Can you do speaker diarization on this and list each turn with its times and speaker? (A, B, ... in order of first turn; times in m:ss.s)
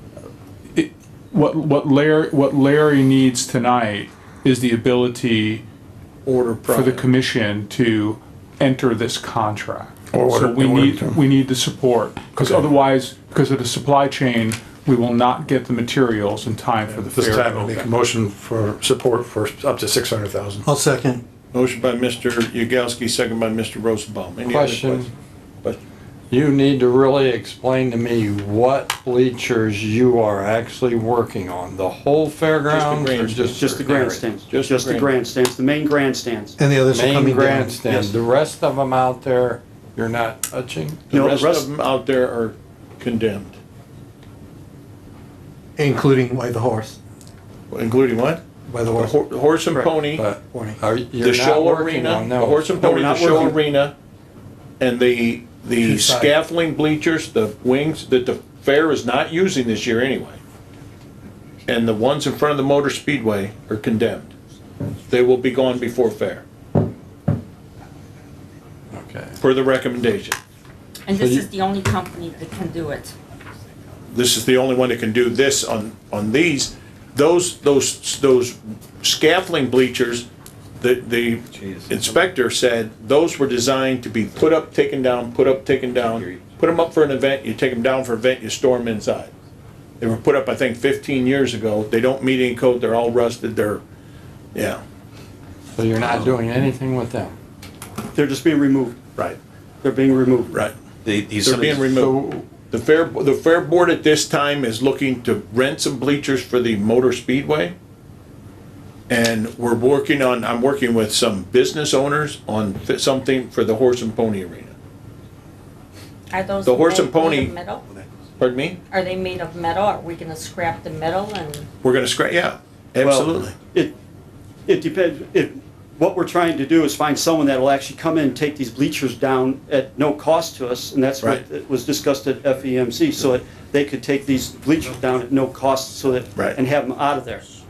0:00.8-0:05.6 A
0:06.3-0:07.0 B
0:06.8-0:17.6 A
0:10.1-0:11.2 C
0:12.4-0:12.7 C
0:16.9-0:20.6 C
0:20.7-0:21.2 D
0:21.5-0:25.1 B
0:24.5-0:25.1 E
0:26.3-0:34.4 E
0:32.6-0:33.6 B
0:33.5-0:36.6 F
0:34.5-0:35.1 B
0:36.6-0:41.1 E
0:36.7-0:37.7 D
0:37.9-0:38.2 F
0:41.1-0:43.6 B
0:41.1-0:41.7 F
0:45.8-0:47.0 D
0:47.7-0:48.4 B
0:48.7-0:49.1 D
0:49.0-0:50.3 B
0:50.1-0:52.7 E
0:50.5-0:50.8 D
0:51.2-0:54.0 B
0:52.8-0:53.6 F
0:54.8-1:00.4 B
0:55.9-0:56.3 D
1:01.7-1:04.3 B
1:05.1-1:06.4 B
1:08.9-1:09.4 E
1:09.4-1:10.4 B
1:11.1-1:13.2 G
1:11.2-1:11.4 E
1:14.1-1:20.3 B
1:20.8-1:29.3 B
1:21.5-1:22.2 H
1:26.1-1:26.5 H
1:30.0-1:33.8 B
1:34.6-1:34.8 B
1:35.8-1:37.4 E
1:38.1-1:39.0 F
1:39.8-1:40.6 F
1:41.0-1:42.0 H
1:41.4-1:47.7 B
1:42.0-1:42.4 E
1:49.1-1:54.7 B
1:56.3-1:57.8 G
1:56.6-1:57.5 B
1:58.4-1:58.8 B
1:58.9-2:01.7 G
2:01.8-2:03.6 B
2:03.0-2:03.9 F
2:04.7-2:17.4 F